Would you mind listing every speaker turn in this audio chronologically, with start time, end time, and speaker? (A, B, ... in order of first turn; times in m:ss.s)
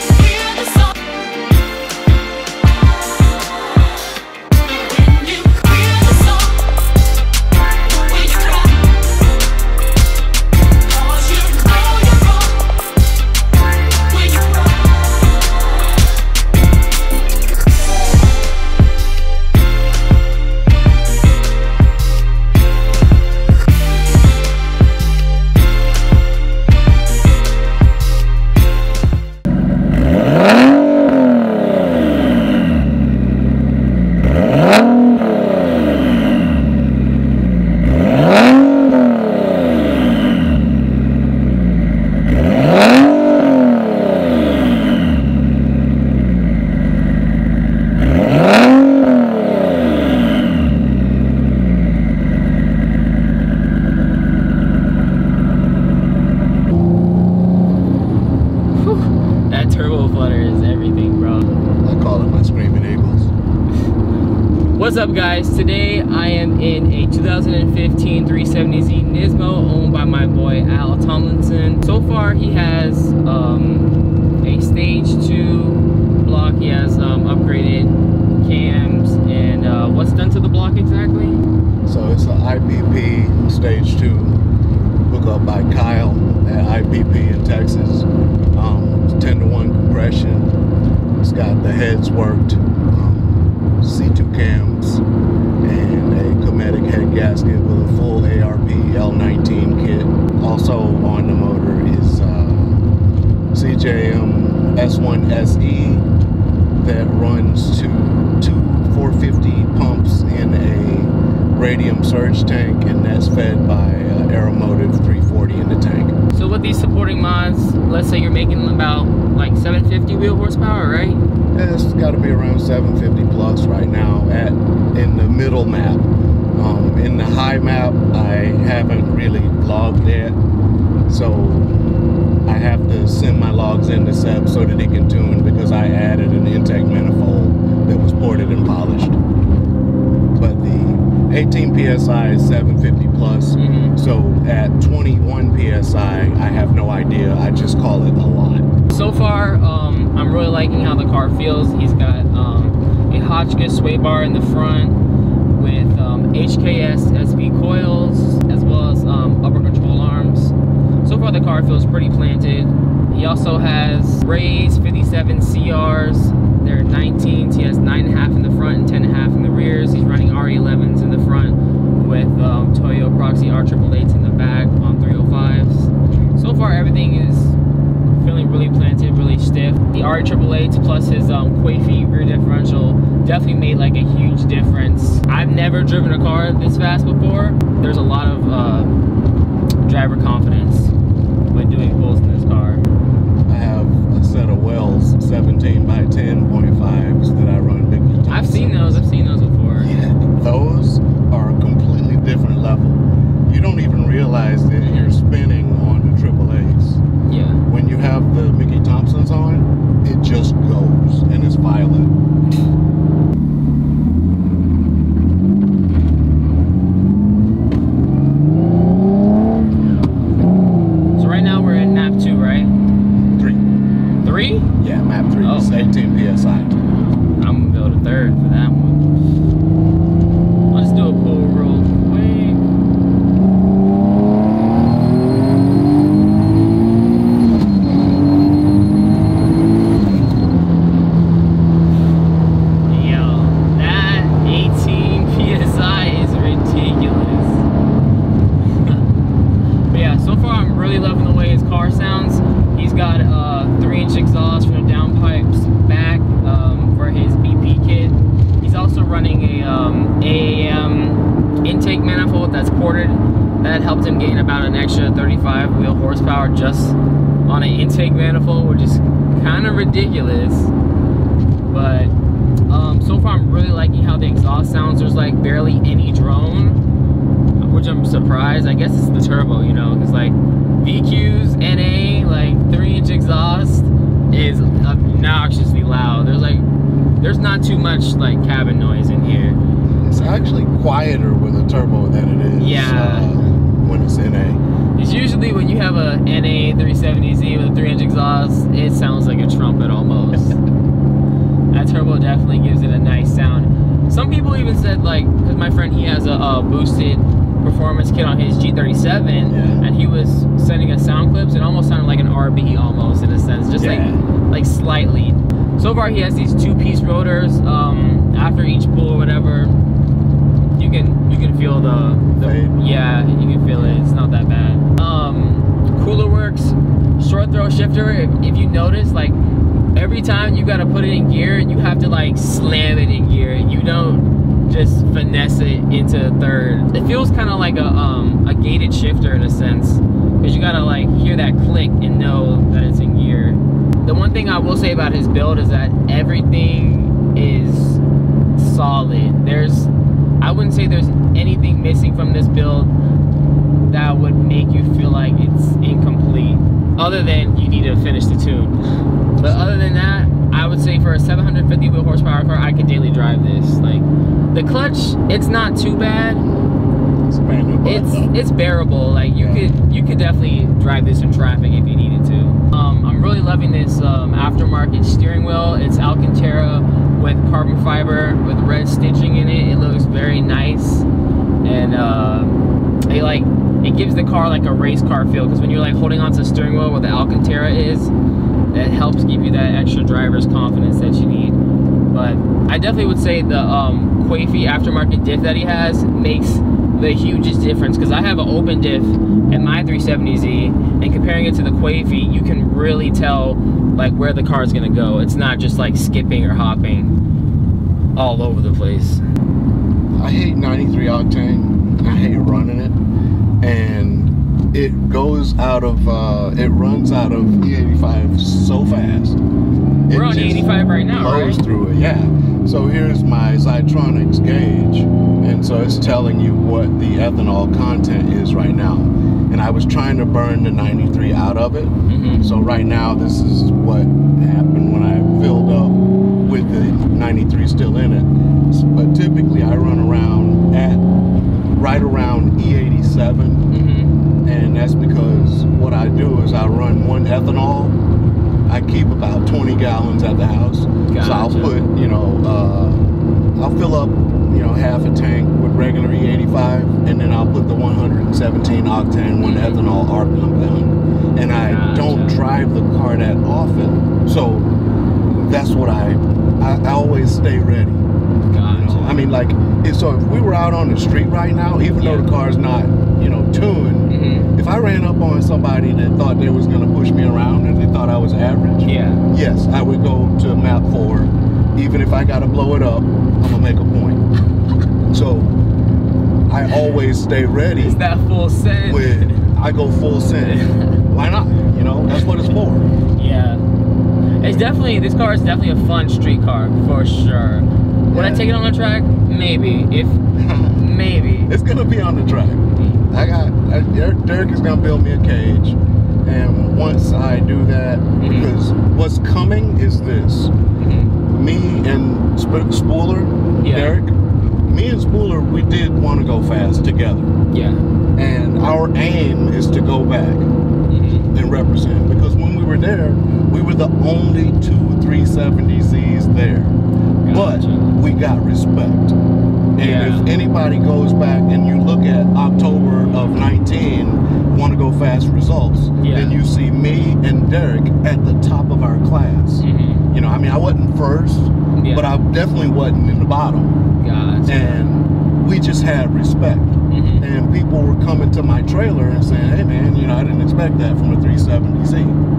0:00.4-0:00.8 A
0:05.1-0:06.5 A
0:08.2-0:08.6 A
0:11.1-0:12.3 A
0:58.8-1:01.5 A
1:01.8-1:03.3 B
1:04.7-1:21.4 A
1:21.9-1:24.4 B
1:25.1-1:30.6 B
1:31.2-1:35.0 B
1:35.6-1:42.8 B
1:43.5-1:46.1 B
1:46.8-1:56.2 B
1:56.3-2:01.2 A
2:01.6-2:10.4 B
2:11.1-2:11.8 B
2:12.5-2:19.2 B
2:20.4-2:28.7 B
2:23.6-2:24.0 A
2:28.9-2:35.0 A
2:35.5-2:57.6 A
2:58.2-3:08.9 A
3:09.8-3:10.9 A
3:11.5-3:12.8 A
3:13.5-3:19.0 B
3:18.3-3:19.9 A
3:19.8-3:27.0 B
3:24.8-3:25.1 A
3:27.3-3:27.6 A
3:27.7-3:32.1 B
3:41.2-3:42.7 A
3:43.4-3:43.6 B
3:44.2-3:44.7 A
3:44.8-3:46.8 B
3:45.4-3:45.8 A
3:47.4-3:49.1 A
3:50.7-3:52.7 A
4:02.9-4:07.6 A
4:08.7-4:09.0 A
4:09.9-4:30.7 A
4:31.7-4:32.1 A
4:32.7-4:36.8 A
4:37.6-4:46.7 A
4:47.2-4:49.6 A
4:50.0-4:54.6 B
4:52.6-4:53.3 A
4:55.0-5:00.6 A
5:01.7-5:19.8 A
5:09.5-5:09.8 B
5:13.8-5:14.2 B
5:20.8-5:29.4 A
5:22.4-5:22.8 B
5:23.7-5:24.0 B
5:30.0-5:48.0 A
5:48.6-5:52.9 A
5:53.9-5:58.8 A
5:59.4-5:59.6 B
5:59.4-6:06.5 A
6:07.3-6:08.4 B
6:07.8-6:21.1 A
6:09.4-6:09.7 B
6:21.6-6:28.1 A
6:28.7-6:31.6 A
6:32.1-6:47.1 A
6:48.2-6:49.2 A
6:50.1-6:53.0 B
6:53.6-6:59.4 B
7:00.1-7:21.0 B
7:00.1-7:01.6 A
7:12.1-7:12.5 A
7:21.8-7:23.7 B
7:23.7-7:24.2 A
7:24.4-7:28.0 B
7:28.7-7:44.7 B
7:31.1-7:31.8 A
7:39.4-7:39.8 A
7:41.6-7:42.4 A
7:45.3-7:48.1 B
7:48.5-7:49.3 A
7:48.7-8:04.2 B
7:52.0-7:52.3 A
7:54.1-7:54.5 A
7:58.9-7:59.2 A
8:05.1-8:05.6 B
8:06.5-8:08.0 B
8:07.8-8:09.4 A
8:08.9-8:12.9 B
8:10.4-8:11.0 A
8:13.2-8:13.6 A
8:14.4-8:14.7 B
8:14.4-8:20.2 A
8:18.1-8:18.5 B
8:20.4-8:20.8 B
8:20.8-8:21.5 A
8:21.5-8:30.5 B
8:28.2-8:28.5 A
8:30.8-8:31.1 A
8:31.3-8:37.3 B
8:33.6-8:33.9 A
8:37.5-8:37.8 A
8:38.2-8:40.5 B
8:40.9-8:41.3 A
8:41.3-8:46.8 B
8:47.2-8:47.9 A
8:47.3-8:49.2 B
8:49.8-9:03.8 B
8:49.8-8:50.3 A
8:56.0-8:56.4 A
8:59.6-9:00.1 A
9:01.8-9:02.1 A
9:04.0-9:04.8 A
9:04.5-9:12.2 B
9:06.9-9:07.3 A